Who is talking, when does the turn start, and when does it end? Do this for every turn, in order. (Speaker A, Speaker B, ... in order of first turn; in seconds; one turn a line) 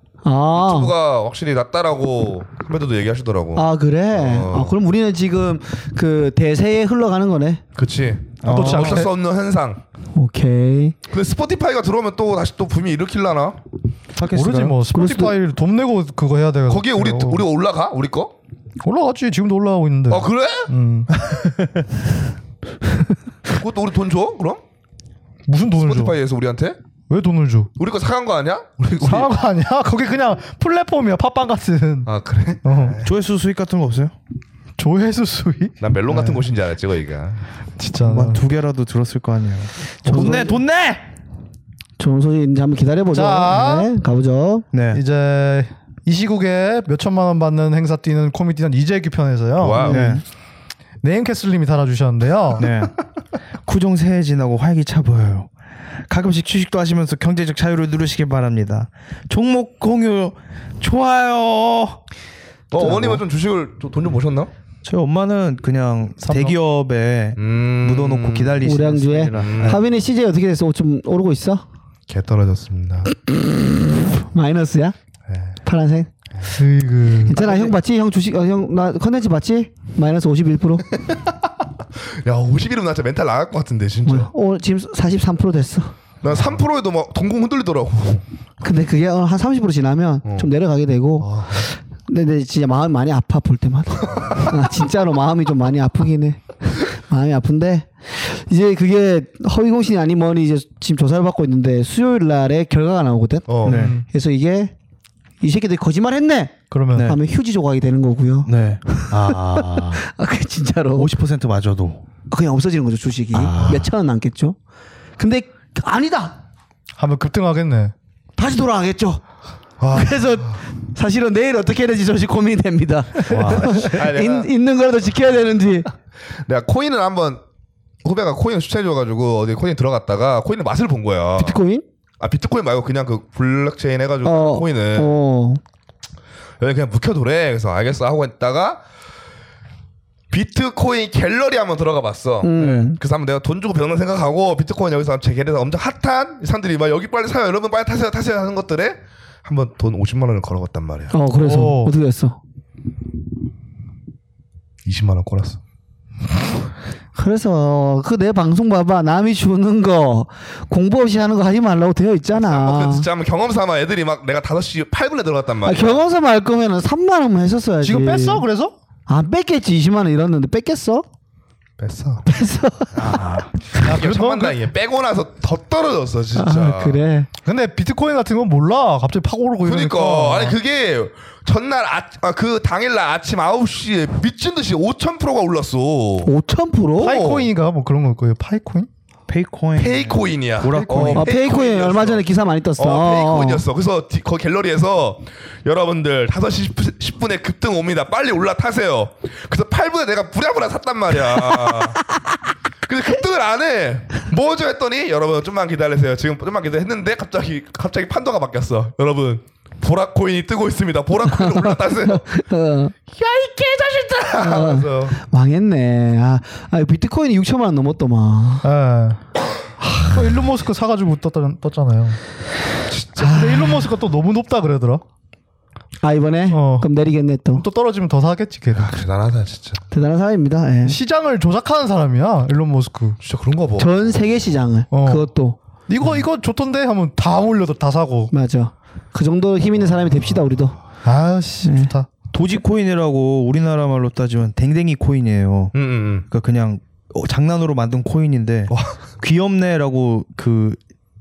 Speaker A: 0.2-0.9
Speaker B: 0.5-4.7
Speaker A: 3.5-7.6
Speaker B: 7.8-9.8
Speaker C: 8.4-9.1
Speaker D: 8.4-9.1
Speaker A: 10.1-11.0
Speaker B: 11.1-13.6
Speaker C: 14.2-14.8
Speaker D: 14.2-17.4
Speaker A: 14.9-15.4
Speaker B: 16.7-18.3
Speaker D: 18.8-21.1
Speaker B: 20.1-20.7
Speaker C: 21.2-21.5
Speaker B: 23.5-24.6
Speaker D: 25.5-26.2
Speaker B: 25.8-26.8
Speaker D: 27.1-27.7
Speaker B: 27.8-29.3
Speaker D: 29.0-32.1
Speaker B: 32.0-33.1
Speaker D: 32.6-33.0
Speaker C: 33.0-34.1
Speaker D: 34.8-35.8
Speaker B: 35.8-37.4
Speaker C: 36.1-36.4
Speaker D: 37.8-38.4
Speaker C: 38.0-41.0
Speaker D: 40.0-40.4
Speaker A: 40.0-40.6
Speaker A: 42.0-44.6
Speaker D: 43.1-43.9
Speaker C: 44.7-45.0
Speaker D: 44.9-50.2
Speaker B: 49.6-50.2
Speaker C: 49.8-50.2
Speaker D: 51.0-52.8
Speaker C: 52.6-52.9
Speaker C: 53.7-55.5
Speaker C: 56.1-62.0
Speaker B: 62.7-64.5
Speaker A: 62.8-63.2
Speaker C: 64.8-69.8
Speaker D: 66.2-66.6
Speaker B: 67.4-68.6
Speaker A: 68.6-71.6
Speaker B: 69.3-69.8
Speaker B: 72.1-73.1
Speaker A: 73.2-75.0
Speaker B: 75.3-75.6
Speaker A: 75.6-76.1
Speaker D: 76.5-77.4
Speaker A: 77.3-80.8
Speaker B: 77.3-77.7
Speaker B: 82.2-84.3
Speaker A: 84.1-85.9
Speaker B: 86.2-88.2
Speaker A: 88.6-104.7
Speaker B: 90.2-90.5
Speaker B: 91.2-91.7
Speaker B: 103.5-103.8
Speaker C: 103.7-104.0
Speaker D: 103.7-104.0
Speaker A: 105.4-111.1
Speaker D: 106.7-107.2
Speaker C: 108.5-110.0
Speaker C: 111.0-112.0
Speaker A: 112.3-114.6
Speaker C: 113.4-113.8
Speaker A: 115.2-116.4
Speaker D: 117.0-117.9
Speaker A: 118.4-119.2
Speaker B: 119.8-120.2
Speaker A: 119.9-125.9
Speaker C: 123.3-123.9
Speaker B: 123.8-124.5
Speaker B: 126.5-127.4
Speaker B: 128.0-131.6
Speaker A: 131.4-131.8
Speaker B: 132.2-135.1
Speaker A: 134.2-135.6
Speaker B: 136.6-138.8
Speaker B: 140.3-151.2
Speaker A: 142.4-143.0
Speaker A: 151.1-152.4
Speaker D: 151.4-151.9
Speaker B: 154.8-155.6
Speaker A: 157.2-163.1
Speaker B: 162.3-166.0
Speaker A: 165.6-168.4
Speaker D: 167.8-168.8
Speaker A: 169.1-171.1
Speaker B: 171.8-172.2
Speaker A: 172.3-173.4
Speaker C: 173.0-173.5
Speaker B: 173.8-177.0
Speaker D: 173.8-174.6
Speaker A: 176.4-177.3
Speaker D: 177.4-180.6
Speaker B: 179.6-186.3
Speaker A: 186.2-187.2
Speaker D: 187.0-188.9
Speaker B: 187.0-187.5
Speaker C: 189.3-191.3
Speaker B: 189.8-192.2
Speaker D: 190.7-191.2
Speaker A: 191.1-193.7
Speaker B: 192.8-202.1
Speaker B: 202.8-212.3
Speaker A: 211.3-212.9
Speaker B: 213.1-215.2
Speaker A: 214.4-218.6
Speaker D: 218.6-219.2
Speaker D: 220.0-222.2
Speaker B: 222.9-223.2
Speaker D: 223.2-225.0
Speaker A: 223.2-223.9
Speaker A: 226.0-227.7
Speaker D: 226.5-226.9
Speaker D: 227.6-229.0
Speaker B: 228.7-229.8
Speaker A: 229.9-231.0
Speaker D: 230.8-233.2
Speaker B: 233.2-234.1
Speaker A: 233.8-235.6
Speaker D: 234.9-235.3
Speaker D: 235.9-238.3
Speaker A: 238.3-240.8
Speaker D: 241.0-242.1
Speaker A: 241.6-241.9
Speaker C: 242.3-245.7
Speaker B: 245.7-246.2
Speaker C: 246.3-250.8
Speaker B: 248.7-248.9